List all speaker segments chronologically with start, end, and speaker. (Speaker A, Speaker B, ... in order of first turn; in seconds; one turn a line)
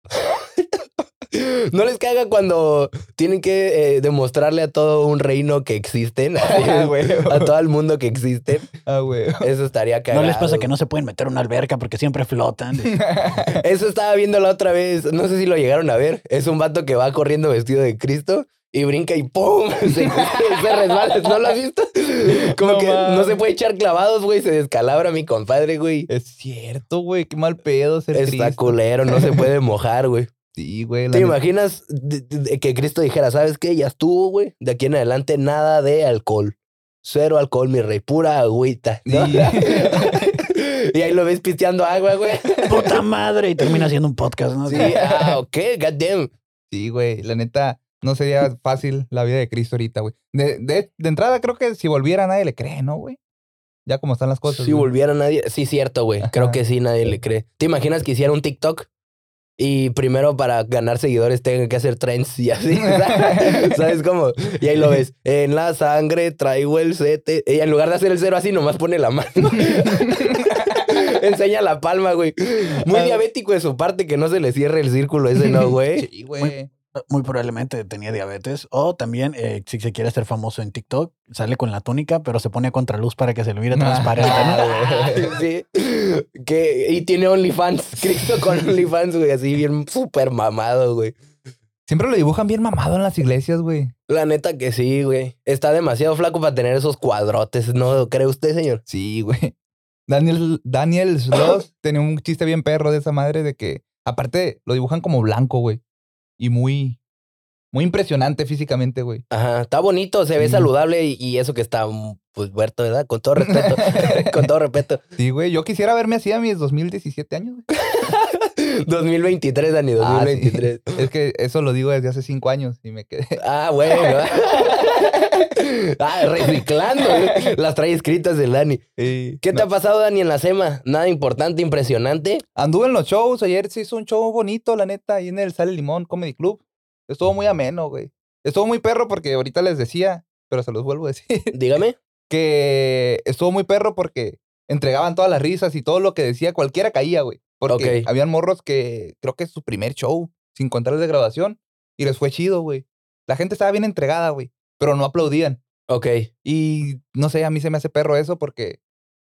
Speaker A: 0.1-8.7
Speaker B: 6.5-7.5
Speaker B: 8.8-9.5
Speaker A: 9.4-10.7
Speaker C: 10.1-13.0
Speaker B: 12.8-13.6
Speaker A: 13.5-26.1
Speaker B: 22.2-23.4
Speaker B: 26.1-29.5
Speaker A: 28.1-30.3
Speaker B: 30.6-31.4
Speaker A: 31.1-42.7
Speaker B: 39.1-40.3
Speaker B: 42.5-42.9
Speaker C: 42.7-45.0
Speaker A: 44.7-46.3
Speaker B: 44.7-45.3
Speaker B: 46.7-53.2
Speaker B: 53.9-54.9
Speaker A: 54.5-58.9
Speaker B: 56.2-56.6
Speaker A: 59.6-76.1
Speaker B: 62.8-63.8
Speaker B: 69.5-71.2
Speaker B: 72.9-73.2
Speaker B: 75.4-76.7
Speaker C: 77.1-84.7
Speaker B: 83.7-85.4
Speaker A: 84.2-91.2
Speaker B: 91.9-93.9
Speaker A: 94.1-98.8
Speaker B: 98.9-99.5
Speaker B: 100.1-105.8
Speaker B: 106.4-107.0
Speaker B: 107.7-109.2
Speaker A: 109.3-115.0
Speaker B: 110.4-110.7
Speaker B: 113.4-114.5
Speaker B: 115.2-117.7
Speaker A: 117.8-121.0
Speaker B: 120.0-124.8
Speaker A: 123.4-128.9
Speaker B: 126.5-127.5
Speaker B: 129.0-129.7
Speaker A: 129.4-132.4
Speaker B: 132.6-141.6
Speaker A: 141.5-142.0
Speaker B: 142.3-155.6
Speaker A: 147.7-148.1
Speaker A: 155.9-156.3
Speaker B: 156.4-158.8